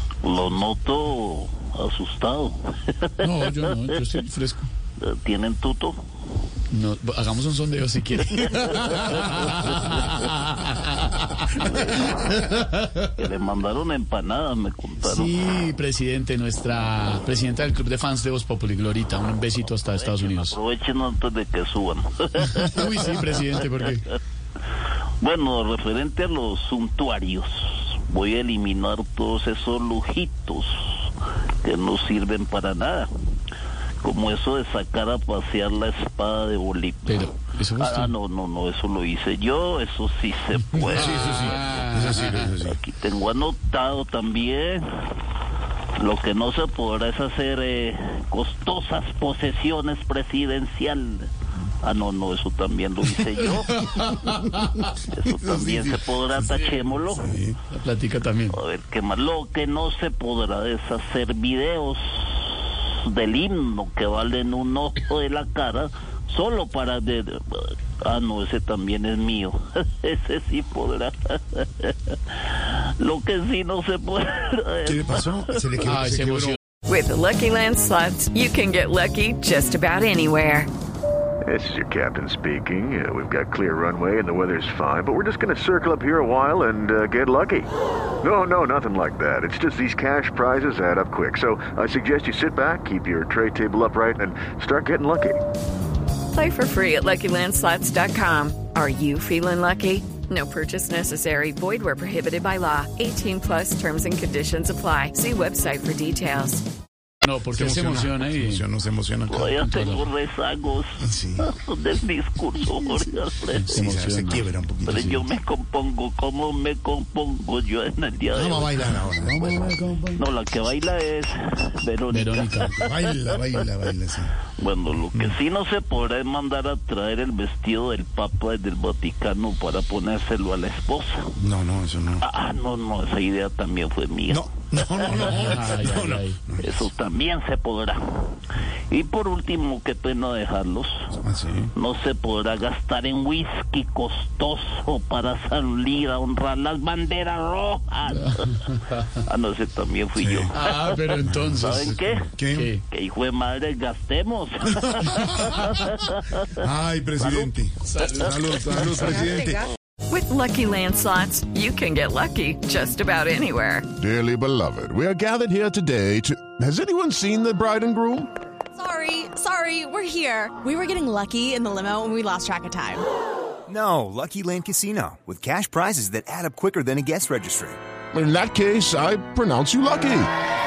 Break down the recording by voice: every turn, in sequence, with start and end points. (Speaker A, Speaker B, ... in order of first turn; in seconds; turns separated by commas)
Speaker A: 0.2-4.2, Speaker B: 3.2-4.7, Speaker A: 5.0-6.0, Speaker B: 6.7-12.7, Speaker A: 11.6-12.4, Speaker A: 13.1-15.3, Speaker B: 15.1-20.6, Speaker A: 19.8-23.1, Speaker B: 22.6-24.0, Speaker A: 25.2-31.1, Speaker A: 31.6-33.1, Speaker A: 34.0-41.6, Speaker B: 37.0-38.1, Speaker C: 40.7-42.8, Speaker B: 40.9-42.5, Speaker A: 42.6-44.8, Speaker A: 46.0-51.3, Speaker A: 51.8-53.8, Speaker B: 53.5-54.5, Speaker A: 55.1-57.3, Speaker C: 55.3-56.1, Speaker B: 56.5-56.9, Speaker C: 57.2-57.5, Speaker B: 57.7-58.6, Speaker A: 58.5-75.3, Speaker C: 74.8-76.6, Speaker B: 75.8-76.6, Speaker D: 76.9-80.7, Speaker E: 81.4-87.7, Speaker E: 88.2-95.4, Speaker D: 96.3-106.6, Speaker B: 107.2-108.6, Speaker C: 107.5-109.5, Speaker A: 109.3-113.7, Speaker B: 109.5-110.0, Speaker C: 111.0-111.5, Speaker B: 113.5-114.5, Speaker C: 113.7-115.1, Speaker A: 114.9-118.9, Speaker C: 118.3-119.9, Speaker B: 119.2-120.2, Speaker A: 120.2-123.6, Speaker B: 122.1-122.8, Speaker C: 122.7-124.4, Speaker A: 124.6-131.2, Speaker C: 131.4-132.2, Speaker A: 132.2-135.4, Speaker C: 134.3-136.7, Speaker B: 135.2-136.4, Speaker A: 136.6-138.0, Speaker A: 138.9-141.1, Speaker C: 141.1-141.7, Speaker A: 141.8-148.7, Speaker B: 148.3-149.1, Speaker A: 149.2-152.3, Speaker C: 150.2-150.5, Speaker B: 150.5-151.7, Speaker C: 151.2-152.7, Speaker B: 152.5-152.8, Speaker A: 152.9-156.5, Speaker C: 155.1-155.6, Speaker C: 156.6-159.7, Speaker A: 157.2-157.5, Speaker B: 157.9-158.3, Speaker A: 158.6-158.9, Speaker D: 160.1-163.9, Speaker F: 164.0-168.3, Speaker G: 168.8-173.1, Speaker H: 173.7-177.8, Speaker F: 178.1-180.3